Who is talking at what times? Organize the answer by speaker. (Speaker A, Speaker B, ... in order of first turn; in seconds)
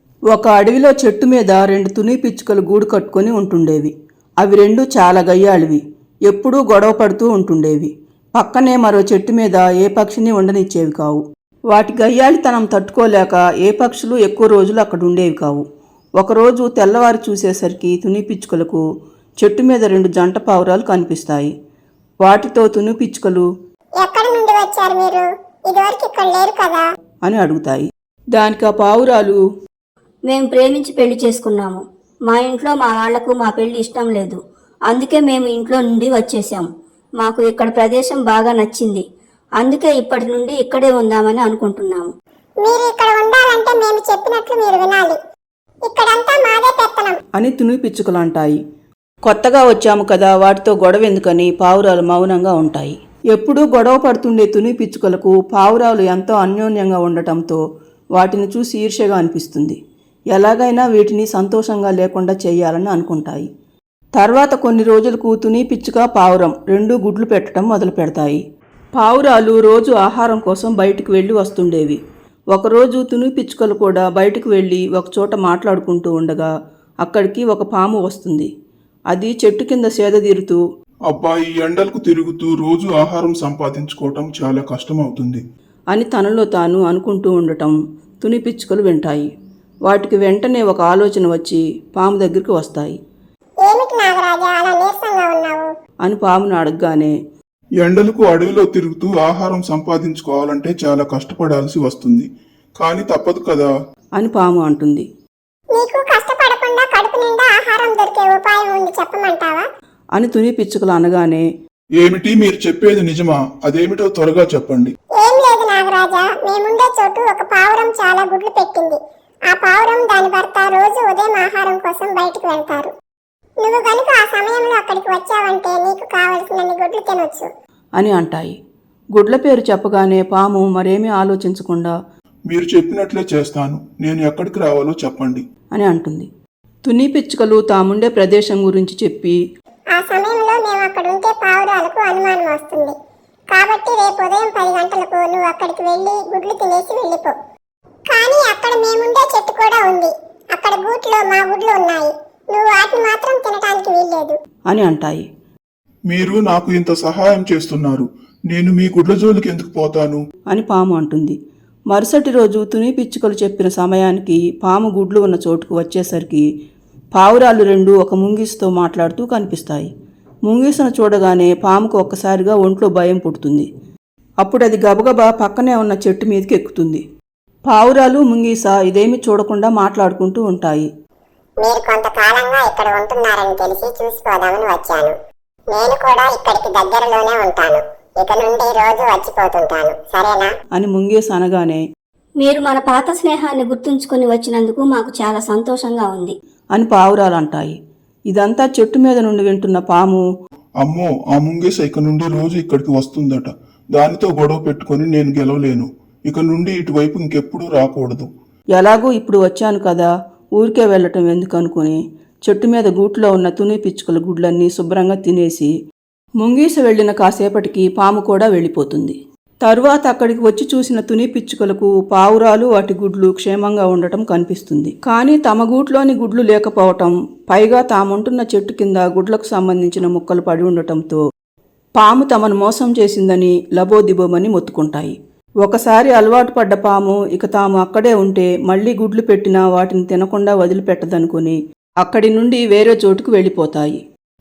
Speaker A: 0.3-15.7, 16.2-18.8, 19.4-21.5, 22.2-23.5, 27.2-29.4, 47.4-48.6, 49.3-57.6, 58.1-59.8, 60.3-63.5, 64.2-68.4, 69.0-72.0, 72.5-76.5, 77.0-78.5, 79.1-80.6, 85.9-89.3, 89.9-93.0, 96.0-97.2, 104.2-105.1, 110.2-111.5, 128.0-128.6, 129.2-131.9, 135.8-136.3, 136.8-139.4, 154.7-155.2, 160.5-161.3, 161.9-166.4, 167.2-169.9, 170.4-173.7, 174.4-177.0, 177.7-180.9, 190.7-191.8, 196.8-197.8, 198.3-200.2, 208.8-215.7, 216.4-231.2, 232.0-244.0
Speaker B: 24.0-26.8, 42.6-45.2, 45.9-47.2, 93.6-95.7, 105.8-109.7, 115.2-119.0, 119.5-122.9, 123.6-127.5, 139.9-142.9, 143.5-147.3, 148.1-154.4, 181.6-185.2, 185.7-190.5
Speaker C: 30.3-39.0, 39.6-42.1, 192.4-196.3
Speaker D: 81.1-85.4, 97.8-103.7, 112.0-114.9, 132.5-135.4, 156.1-160.2, 200.8-208.3